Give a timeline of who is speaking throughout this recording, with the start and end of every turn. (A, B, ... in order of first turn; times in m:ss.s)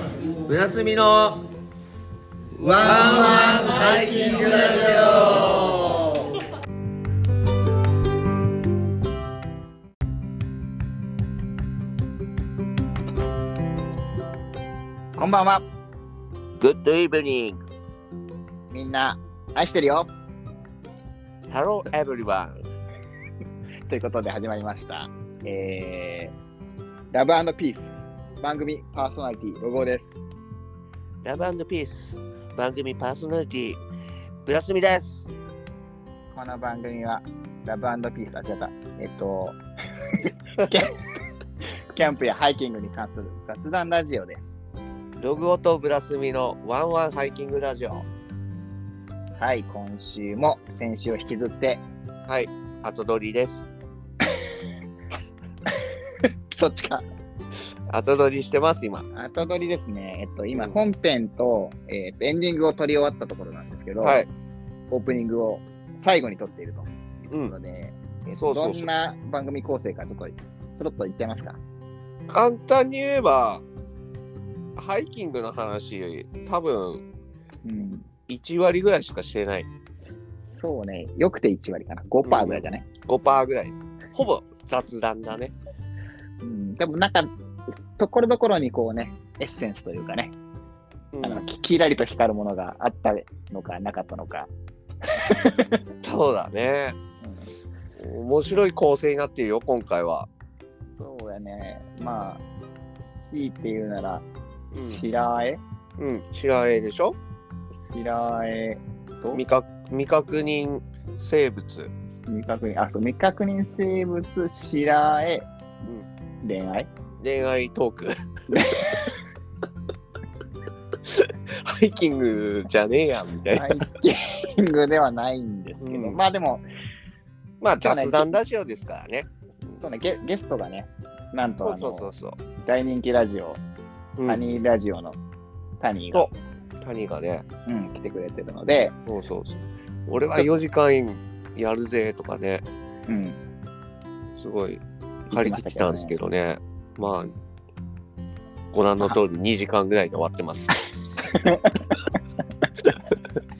0:00.4-0:01.4 A
0:02.6-0:06.0 A
0:02.6-0:05.0 B
0:15.2-0:15.6 B
0:16.6-0:17.6 A
0:18.7-0:20.1 B
0:21.5-0:22.6 A
0:23.9-0:26.3 B
0:27.1-0:30.1 B
0:31.2-0:33.8 A
0:34.4-0:35.3 A
0:36.3-0:39.6 B
0:40.6-0:41.0 B
0:41.9-0:44.4 B
0:45.2-0:48.1 A
0:49.4-0:51.8 B
0:52.3-0:53.7 A
0:56.5-0:57.0 B
0:57.9-0:59.1 A
0:59.1-1:04.2 B
1:00.5-1:00.8 A
1:04.0-1:04.3 A
1:04.9-1:11.6 B
1:08.4-1:09.0 A
1:12.3-1:13.6 A
1:14.8-1:17.0 A
1:17.6-1:18.1 B
1:18.3-1:19.7 A
1:20.6-1:22.8 B
1:22.2-1:25.5 A
1:26.4-1:27.3 B
1:28.0-1:30.3 B
1:31.1-1:31.4 A
1:31.2-1:34.5 B
1:35.1-1:35.8 B
1:36.0-1:37.0 A
1:37.2-1:37.5 B
1:38.0-1:40.3 A
1:41.0-1:42.4 B
1:43.3-1:44.2 B
1:44.7-1:45.0 A
1:44.8-1:45.6 B
1:46.0-1:47.2 A
1:47.9-1:49.4 B
1:49.3-1:51.9 A
1:52.3-1:55.5 B
1:56.4-1:56.9 B
1:57.2-1:58.1 A
1:58.5-1:59.1 B
2:01.0-2:03.8 A
2:03.5-2:06.6 B
2:05.8-2:06.2 A
2:07.6-2:09.8 A
2:07.8-2:08.4 B
2:09.8-2:13.6 B
2:11.6-2:12.4 A
2:14.2-2:14.6 A
2:14.2-2:15.2 B
2:15.8-2:16.3 B
2:16.1-2:17.4 A
2:17.6-2:19.0 B
2:19.0-2:22.6 A
2:23.1-2:23.4 B
2:24.4-2:27.3 A
2:25.3-2:26.1 B
2:28.7-2:30.7 A
2:31.3-2:31.8 B
2:32.8-2:33.2 A